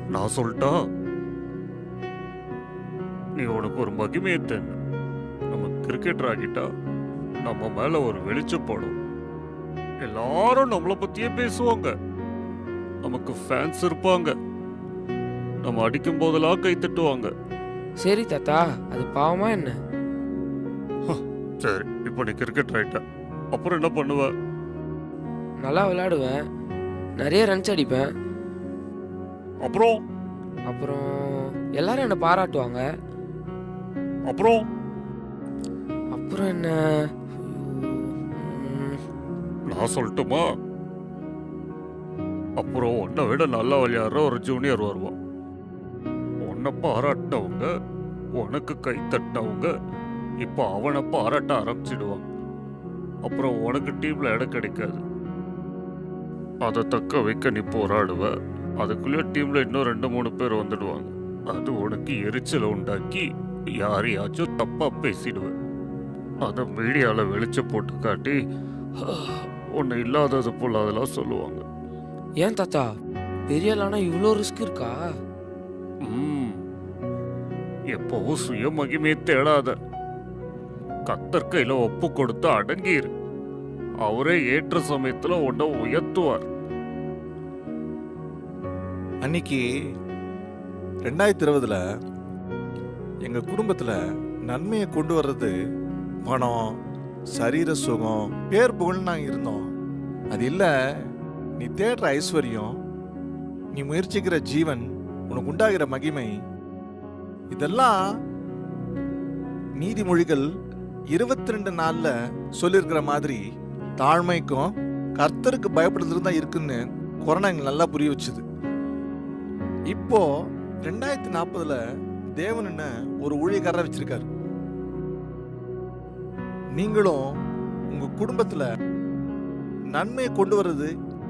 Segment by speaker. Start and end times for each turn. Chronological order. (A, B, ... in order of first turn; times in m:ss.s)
0:00.1-0:00.7 A
0:03.4-0:04.8 A
0:05.5-0:06.7 A
0:07.4-0:09.0 A
0:10.0-0:11.9 A
0:13.0-0:14.3 A
0:15.6-0:17.3 A
0:18.0-0:19.8 B
0:21.1-0:24.3 A
0:25.6-0:26.4 B
0:27.2-0:28.1 B
0:29.6-0:30.0 A
0:30.7-0:32.8 B
0:34.3-0:34.6 A
0:36.1-0:36.8 B
0:37.4-0:39.0 B
0:39.7-0:40.4 A
0:42.6-0:45.2 A
0:46.5-0:47.7 A
0:48.4-0:49.7 A
0:50.4-0:52.2 A
0:53.2-0:55.0 A
0:56.6-1:03.3 A
1:03.8-1:05.5 A
1:06.4-1:08.4 A
1:09.0-1:11.6 A
1:12.4-1:12.9 B
1:13.5-1:15.0 B
1:16.0-1:16.6 A
1:17.9-1:19.7 A
1:21.1-1:23.1 A
1:24.0-1:26.4 A
1:29.2-1:29.6 C
1:31.1-1:31.8 C
1:33.2-1:34.0 C
1:34.5-1:35.5 C
1:36.2-1:36.6 C
1:37.4-1:39.6 C
1:40.3-1:40.7 C
1:41.6-1:42.7 C
1:43.8-1:46.3 C
1:47.5-1:48.0 C
1:49.8-1:50.4 C
1:51.1-1:53.4 C
1:54.0-1:58.4 C
1:59.9-2:00.2 C
2:00.8-2:01.8 C
2:02.4-2:04.2 C
2:06.8-2:07.2 C
2:07.9-2:08.7 C
2:10.0-2:10.9 C